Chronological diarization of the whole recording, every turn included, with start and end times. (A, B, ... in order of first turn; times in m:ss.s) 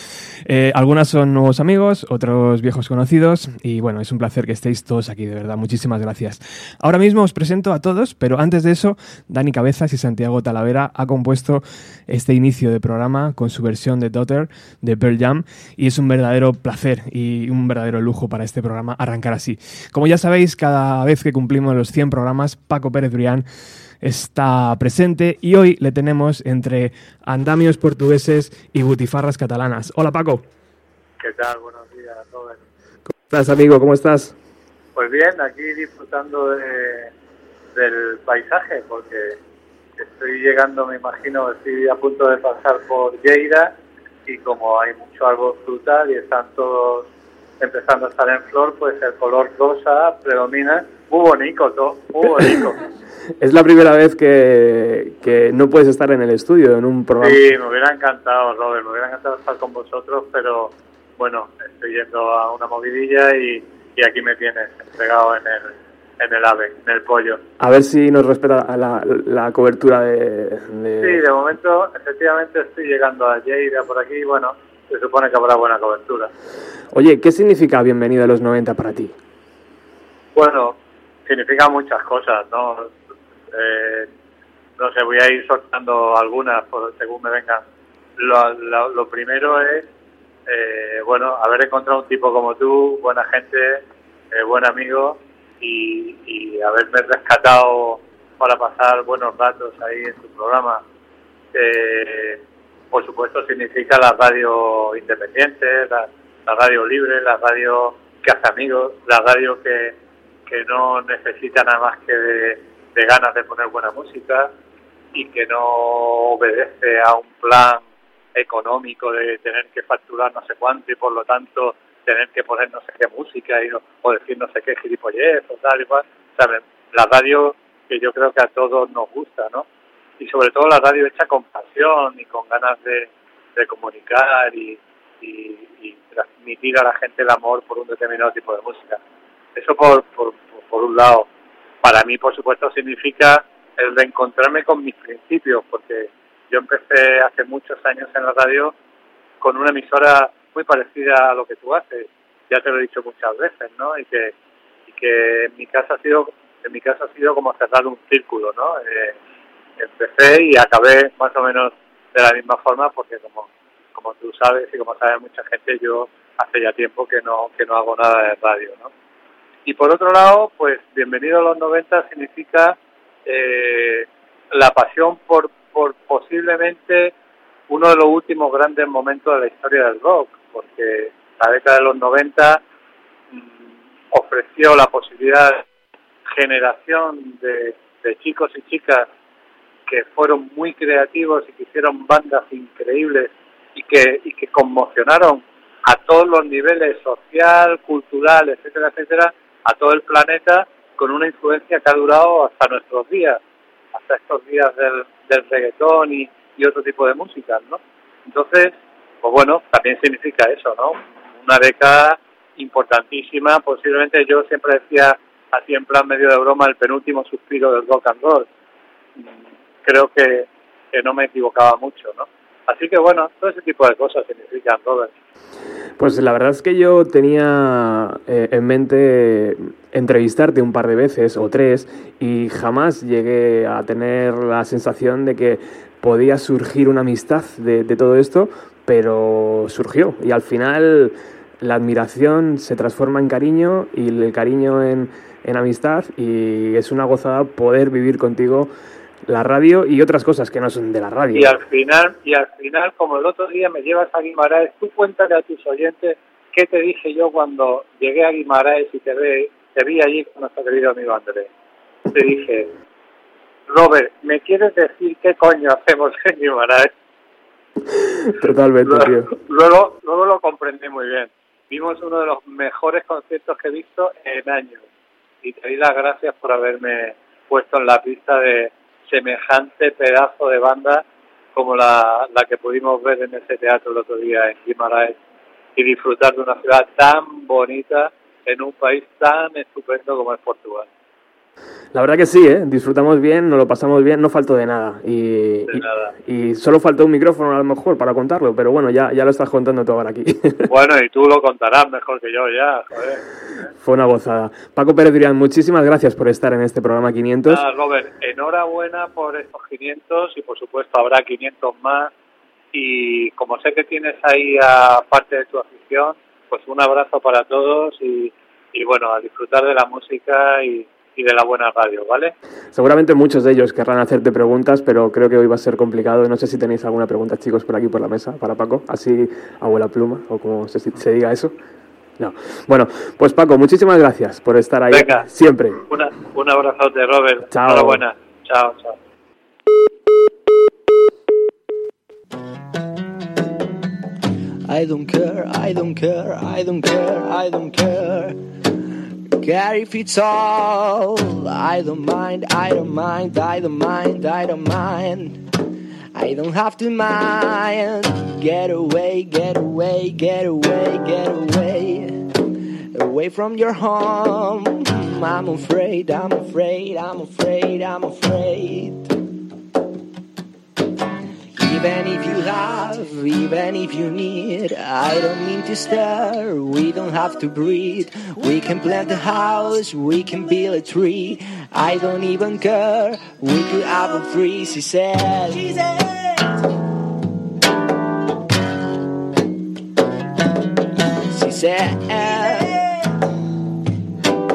0:00.4-0:23.4 A
0:24.0-0:30.4 A
0:31.2-0:32.6 B
0:33.3-0:34.3 A
0:35.0-0:37.1 B
0:37.7-0:39.4 B
0:40.0-0:43.7 B
0:44.2-0:47.1 B
0:47.6-0:52.8 B
0:53.4-0:57.5 A
0:57.2-1:07.4 B
1:07.6-1:11.2 A
1:11.0-1:16.3 B
1:16.9-1:19.1 A
1:20.3-1:20.8 B
1:21.3-1:22.9 B
1:23.5-1:24.1 B
1:24.8-1:27.6 B
1:28.2-1:29.9 B
1:30.5-1:40.8 B
1:41.5-1:50.0 B
1:50.5-1:54.5 B
1:55.1-1:57.8 B
1:58.3-2:09.6 B
2:10.2-2:19.0 B
2:19.6-2:21.3 B
2:21.8-2:28.7 B
2:29.4-2:34.3 B
2:34.9-2:39.2 B
2:39.8-2:48.9 B
2:49.6-2:57.1 B
2:57.7-3:02.6 B
3:04.1-3:05.6 B
3:06.3-3:09.1 B
3:09.9-3:23.4 B
3:23.9-3:38.5 B
3:39.2-3:45.1 B
3:46.0-4:08.7 A
4:09.2-4:11.6 A
4:11.3-4:21.5 B
4:22.1-4:22.7 B
4:23.7-4:26.9 B
4:28.0-4:29.3 A
4:28.9-4:34.8 B
4:35.4-4:41.0 B
4:41.5-4:45.2 B
4:45.8-4:50.9 B
4:51.9-5:00.6 A
4:55.7-4:56.1 B
5:00.7-5:03.2 B
5:03.8-5:07.6 A
5:07.5-5:12.1 B
5:12.7-5:22.3 B
5:22.7-5:31.5 A
5:32.2-5:35.8 A
5:34.9-5:35.3 B
5:35.9-5:39.0 B
5:37.5-5:38.0 A
5:44.6-5:48.4 C
5:49.4-5:55.4 C
5:56.1-6:02.2 C
6:02.9-6:09.1 C
6:11.5-6:25.7 C
6:31.3-6:32.7 C